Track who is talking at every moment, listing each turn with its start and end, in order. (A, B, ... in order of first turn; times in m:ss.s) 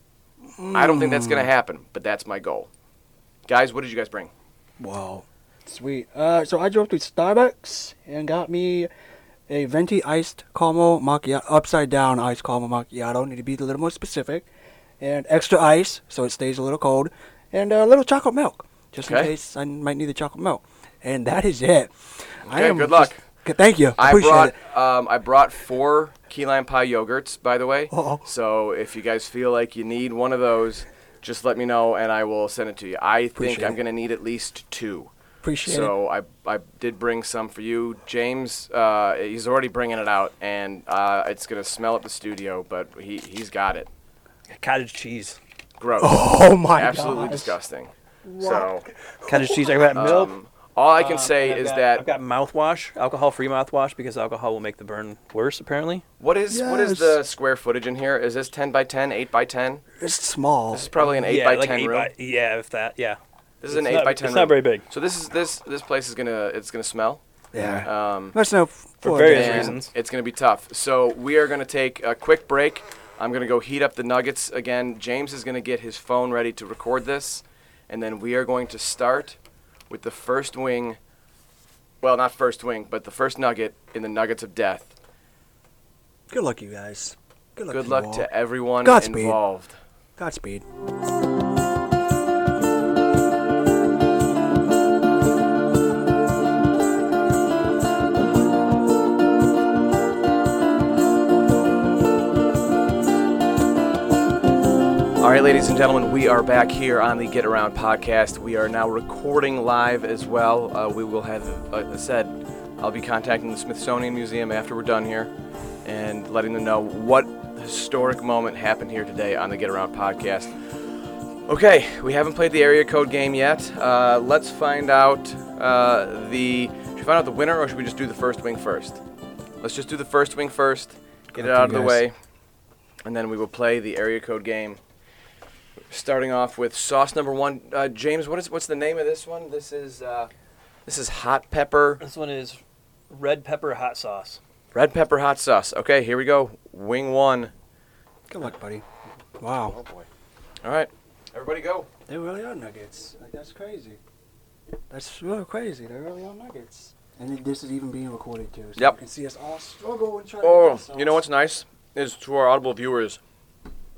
0:00.4-0:01.5 A
0:00.7-0:02.7 B
0:03.5-0:04.3 B
0:04.8-0:08.9 A
0:09.5-0:14.4 A
0:15.0-0:24.6 A
0:19.0-0:19.3 B
0:22.4-0:23.2 B
0:24.0-0:35.1 B
0:27.9-0:28.2 A
0:33.4-0:33.8 A
0:35.4-0:35.9 A
0:35.6-0:43.9 B
0:44.5-0:45.4 C
0:45.8-0:48.9 B
0:46.0-0:47.6 A
0:48.2-0:48.7 A
0:49.2-0:50.3 C
0:49.9-0:52.1 B
0:51.0-0:56.0 C
0:56.2-0:59.8 B
0:56.5-0:57.2 A
1:00.0-1:00.9 A
1:00.7-1:02.1 B
1:01.0-1:04.8 C
1:03.6-1:07.2 B
1:07.5-1:09.8 A
1:07.8-1:08.4 B
1:09.0-1:09.9 C
1:09.3-1:19.4 B
1:19.9-1:21.0 B
1:22.0-1:24.9 B
1:26.3-1:28.3 A
1:27.7-1:29.8 B
1:28.8-1:29.4 A
1:30.2-1:30.6 A
1:45.2-1:55.3 B
1:55.8-2:00.5 B
2:01.5-2:09.0 B
2:09.6-2:12.1 B
2:11.3-2:12.0 A
2:13.0-2:14.8 B
2:15.9-2:20.3 B
2:20.8-2:22.0 B
2:22.0-2:22.6 C
2:23.1-2:24.4 C
2:24.7-2:27.5 B
2:28.3-2:28.8 A
2:29.4-2:29.8 A
2:29.7-2:30.1 B
2:30.6-2:31.9 B
2:32.1-2:34.0 A
2:34.9-2:41.2 A
2:40.4-2:43.2 B